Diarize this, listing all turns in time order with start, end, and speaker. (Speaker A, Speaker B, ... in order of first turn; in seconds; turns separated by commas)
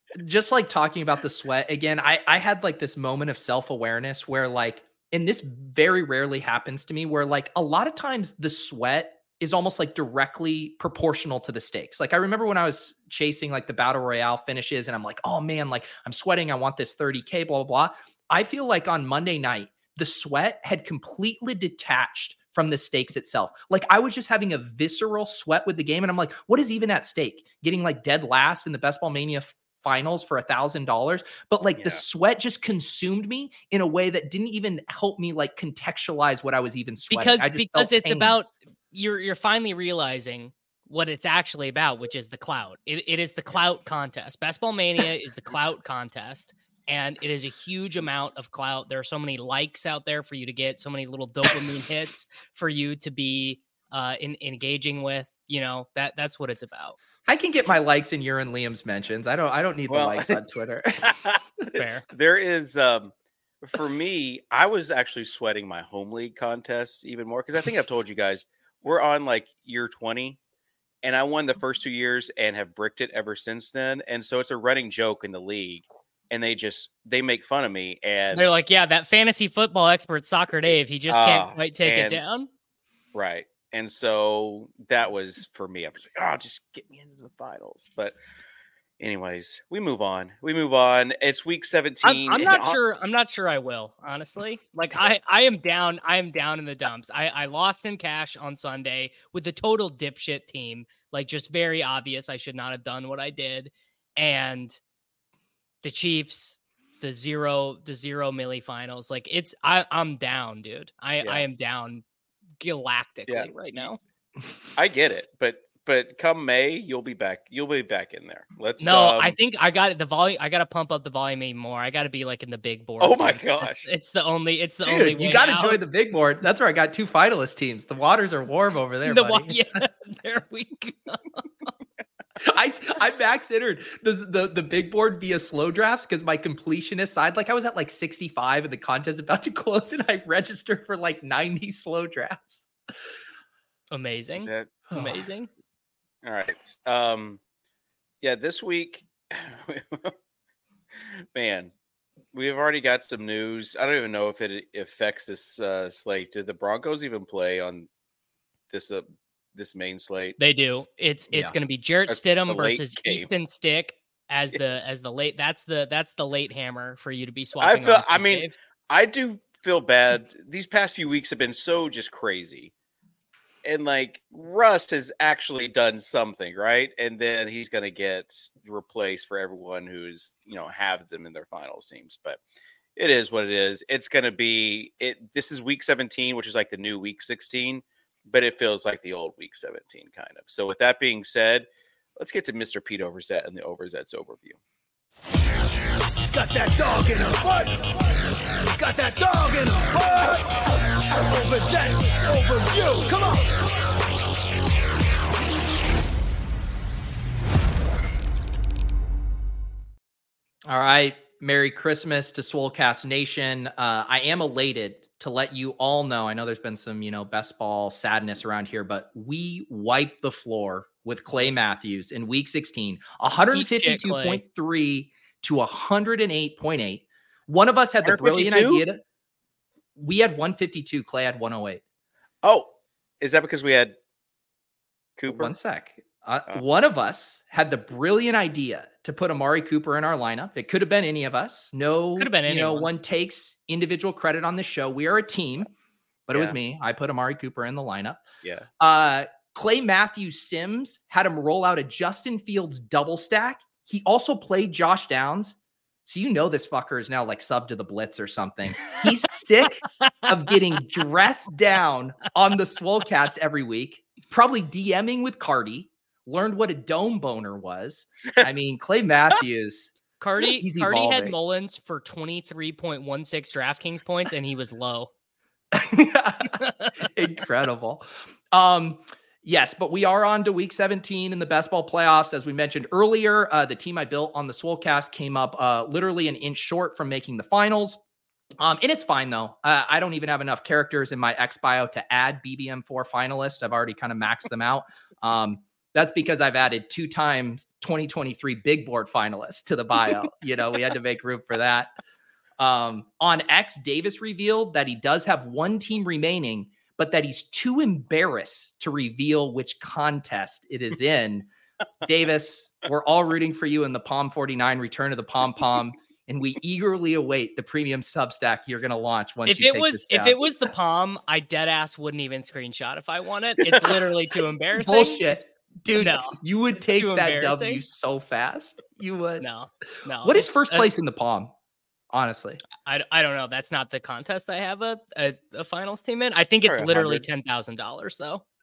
Speaker A: 0.1-38.4, Speaker B: 37.1-57.0, Speaker A: 57.3-61.1, Speaker C: 59.9-60.4, Speaker C: 61.0-70.4, Speaker B: 61.8-62.0, Speaker C: 71.0-78.5, Speaker B: 78.3-82.5, Speaker C: 81.1-82.2, Speaker C: 83.1-88.2, Speaker C: 89.0-92.8, Speaker B: 92.0-104.8, Speaker B: 105.8-112.0, Speaker B: 112.6-114.0, Speaker C: 113.3-113.9, Speaker C: 114.8-119.4, Speaker B: 118.8-125.8, Speaker C: 123.0-123.8, Speaker A: 124.8-129.6, Speaker B: 129.1-131.7, Speaker A: 132.4-142.7, Speaker B: 143.9-145.5, Speaker C: 144.4-144.8, Speaker A: 144.9-145.2, Speaker C: 146.2-147.4, Speaker C: 148.2-150.1, Speaker C: 151.3-151.7, Speaker C: 152.3-157.9, Speaker C: 158.7-160.4, Speaker B: 160.4-168.5, Speaker C: 162.1-163.3, Speaker C: 167.6-172.7, Speaker C: 173.6-182.4, Speaker C: 183.0-194.6, Speaker D: 196.3-203.5, Speaker A: 210.7-229.0, Speaker B: 223.5-224.4, Speaker C: 228.1-228.8, Speaker A: 230.0-231.8, Speaker C: 232.4-233.9, Speaker C: 235.2-235.5, Speaker A: 235.3-245.7, Speaker B: 242.2-242.9, Speaker A: 246.3-248.2, Speaker C: 246.3-246.6, Speaker A: 248.8-269.9, Speaker B: 270.2-275.1, Speaker A: 270.6-271.4, Speaker A: 275.7-288.0, Speaker A: 288.6-301.9, Speaker A: 302.6-311.5, Speaker A: 312.0-320.4, Speaker B: 319.5-325.2, Speaker C: 323.7-324.0, Speaker A: 324.8-329.5, Speaker B: 325.9-326.4, Speaker B: 326.9-327.8, Speaker B: 329.4-330.9, Speaker A: 330.2-331.5, Speaker A: 332.1-332.6, Speaker B: 332.8-338.4, Speaker C: 336.6-337.2